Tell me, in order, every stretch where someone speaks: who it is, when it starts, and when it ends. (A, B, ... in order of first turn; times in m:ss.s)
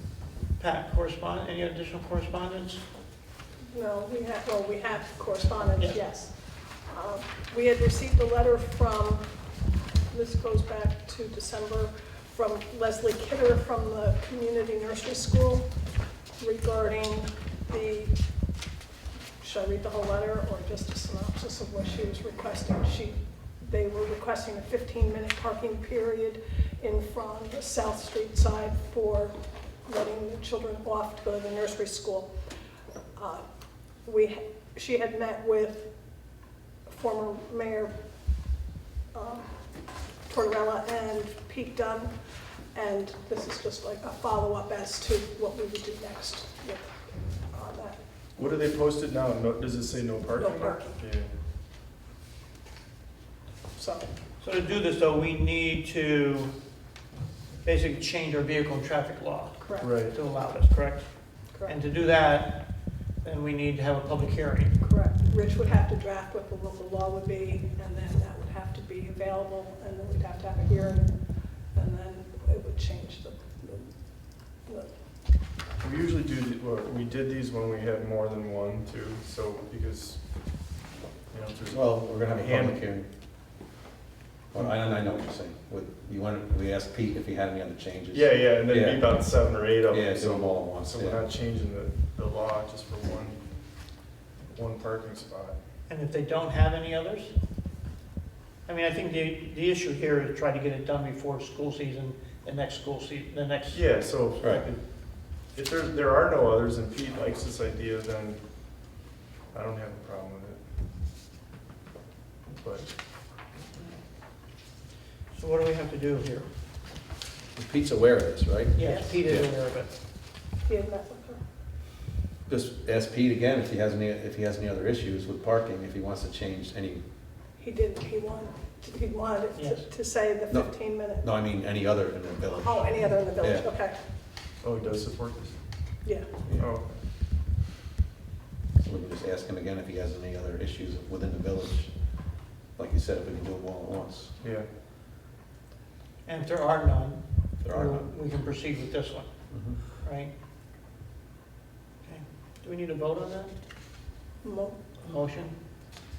0:00.6-0:02.8 A
0:03.7-0:09.3 B
0:05.8-0:06.0 A
0:10.1-0:15.6 B
0:16.4-0:18.1 B
0:19.4-0:32.3 B
0:33.2-0:33.4 B
0:34.0-0:35.9 B
0:36.9-0:37.9 B
0:39.1-0:39.5 B
0:40.3-0:42.1 B
0:42.7-0:46.9 B
0:47.5-0:48.0 B
0:48.4-0:51.3 C
0:50.4-0:51.0 B
0:53.8-0:54.1 B
0:54.4-0:56.5 A
0:57.6-1:02.7 A
0:59.6-1:00.0 B
0:59.8-1:00.2 C
1:03.2-1:04.7 A
1:04.8-1:11.2 B
1:11.7-1:13.4 B
1:15.8-1:20.2 C
1:21.3-1:22.8 C
1:21.7-1:23.1 D
1:24.5-1:29.1 D
1:28.1-1:33.4 C
1:29.8-1:31.2 D
1:34.5-1:35.6 C
1:35.9-1:37.3 A
1:38.6-1:44.4 A
1:43.7-1:48.4 C
1:44.4-1:44.6 D
1:49.5-1:50.6 C
1:52.6-1:52.9 C
1:55.3-1:56.5 A
1:57.6-1:59.5 D
1:58.8-1:59.9 A
1:58.8-1:59.1 B
2:00.6-2:01.4 B
2:02.5-2:07.0 D
2:07.6-2:11.3 B
2:09.5-2:09.9 A
2:10.5-2:13.7 D
2:12.6-2:14.0 B
2:14.6-2:15.6 C
2:16.0-2:16.3 B
2:16.6-2:17.0 C
2:18.8-2:21.9 D
2:22.7-2:24.3 D
2:24.4-2:24.7 C
2:26.2-2:29.3 A
2:27.6-2:28.1 D
2:29.5-2:29.8 D
2:29.9-2:30.3 A
2:32.0-2:33.5 A
2:34.4-2:34.8 B
2:35.0-2:35.5 A